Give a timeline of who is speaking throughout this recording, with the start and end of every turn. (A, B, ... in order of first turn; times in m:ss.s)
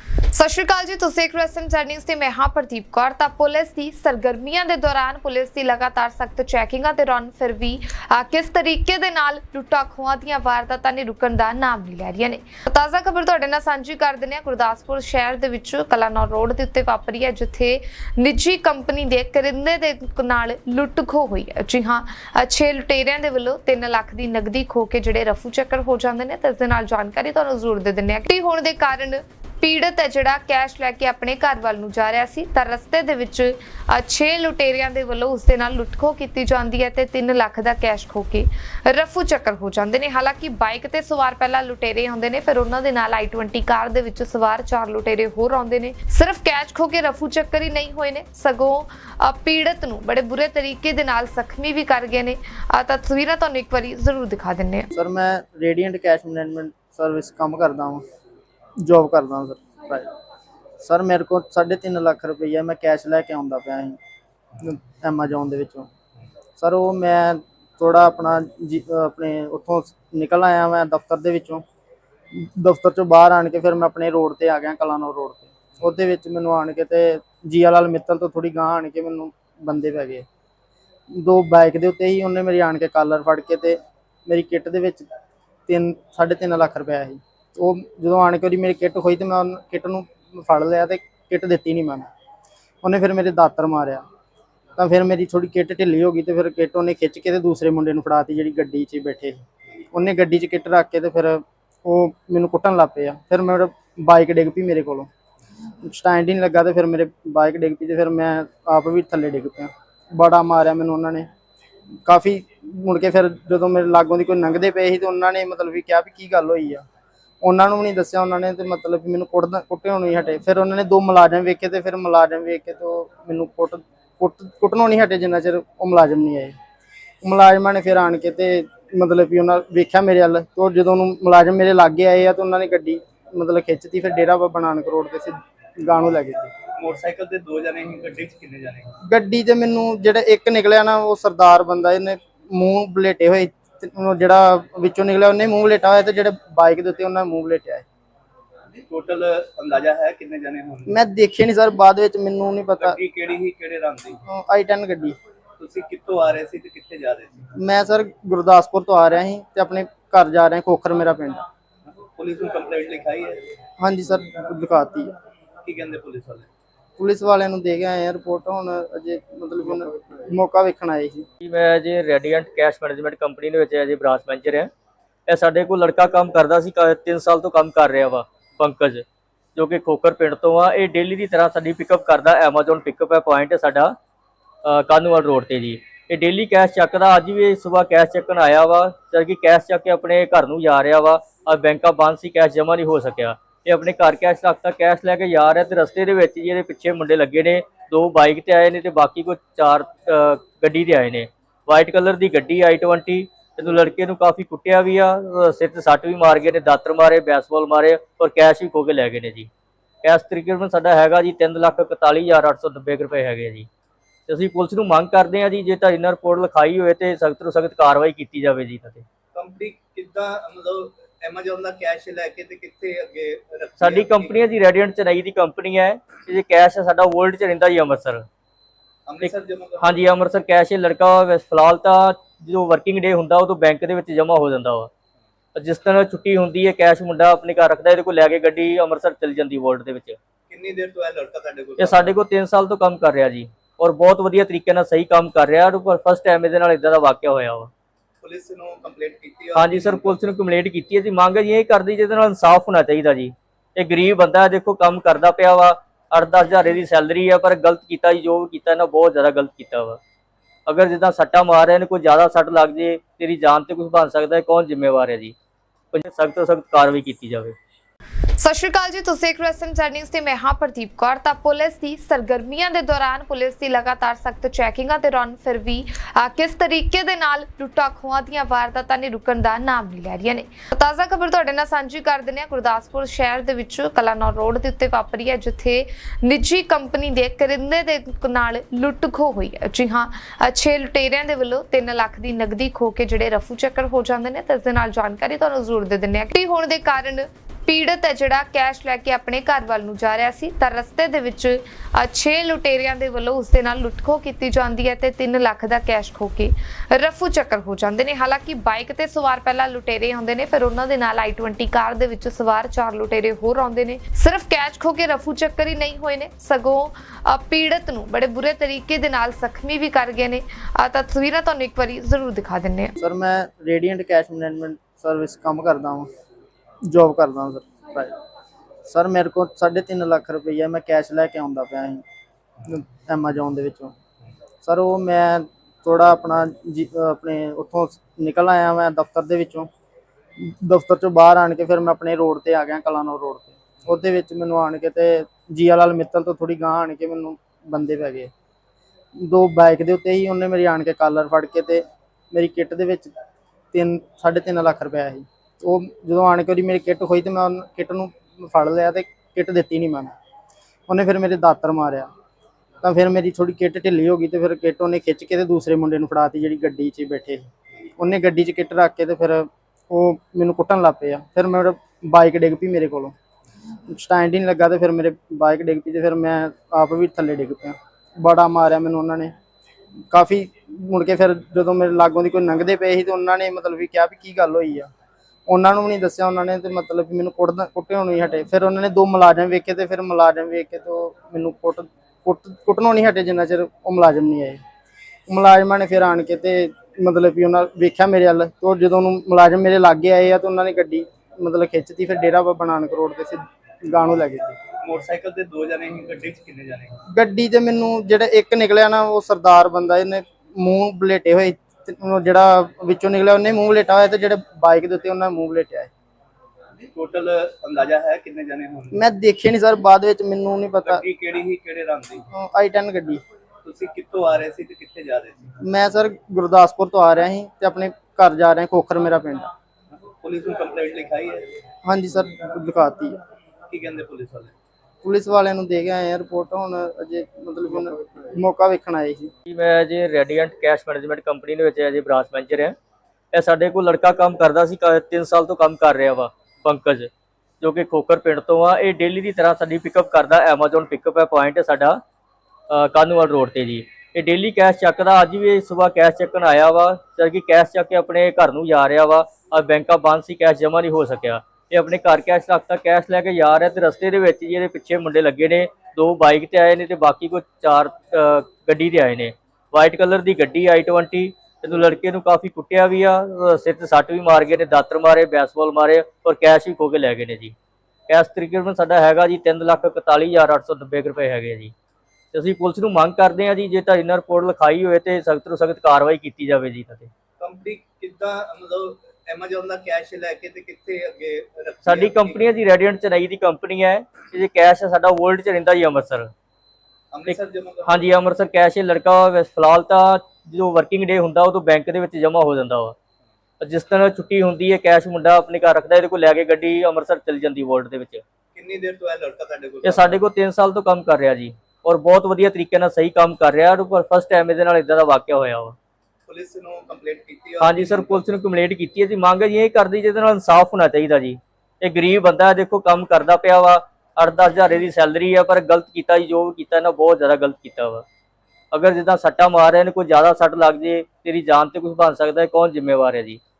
0:00.3-0:54.9 A
0:54.9-0:58.0 B
0:58.8-1:00.1 B
1:00.8-1:04.0 B
1:04.6-1:05.9 B
1:06.6-1:11.6 B
1:12.3-1:20.2 B
1:21.1-1:25.1 B
1:25.7-1:32.1 B
1:32.8-1:34.0 B
1:34.8-1:45.1 B
1:45.8-1:51.3 B
1:52.0-1:56.8 B
1:57.4-2:06.6 B
2:07.2-2:16.5 B
2:16.8-2:19.0 C
2:19.1-2:27.8 B
2:28.9-2:30.9 C
2:30.9-2:33.0 B
2:32.8-2:34.2 C
2:34.3-2:35.2 B
2:35.6-2:37.4 C
2:37.6-2:41.4 B
2:42.2-2:43.4 C
2:43.8-2:45.1 B
2:45.6-2:46.5 C
2:47.0-2:51.2 B
2:51.4-2:54.7 D
2:55.3-3:03.9 D
3:04.6-3:29.5 D
3:30.0-3:33.7 D
3:34.3-3:39.0 D
3:39.4-3:44.5 C
3:43.8-3:48.3 D
3:49.1-3:50.0 C
3:49.2-3:54.9 D
3:55.6-4:00.2 D
4:00.5-4:02.1 C
4:01.8-4:07.7 D
4:08.2-4:10.2 C
4:09.6-4:20.0 D
4:20.7-4:25.4 D
4:25.9-4:27.6 D
4:28.4-5:23.0 A
5:23.0-5:26.1 B
5:26.9-5:28.1 B
5:28.9-5:32.0 B
5:32.6-5:33.9 B
5:34.6-5:39.7 B
5:40.4-5:48.3 B
5:49.2-5:53.1 B
5:53.7-6:00.1 B
6:00.9-6:02.1 B
6:02.8-6:07.5 B
6:08.0-6:13.1 B
6:13.9-6:19.3 B
6:20.1-6:24.9 B
6:25.5-6:34.6 B
6:35.3-6:44.6 B
6:44.8-6:47.0 C
6:47.1-6:55.9 B
6:56.9-6:59.0 C
6:58.9-7:01.0 B
7:00.8-7:02.2 C
7:02.3-7:03.2 B
7:03.6-7:05.5 C
7:05.6-7:09.5 B
7:10.2-7:11.5 C
7:11.8-7:13.2 B
7:13.7-7:14.5 C
7:15.0-7:19.3 B
7:19.5-7:22.8 D
7:23.3-7:27.1 D
7:27.6-7:32.0 D
7:32.7-7:57.6 D
7:58.1-8:01.7 D
8:02.3-8:07.1 D
8:07.4-8:12.5 C
8:11.8-8:16.3 D
8:17.1-8:18.1 C
8:17.3-8:23.0 D
8:23.6-8:28.2 D
8:28.6-8:30.2 C
8:29.8-8:35.8 D
8:36.3-8:38.2 C
8:37.6-8:48.0 D
8:48.7-8:53.4 D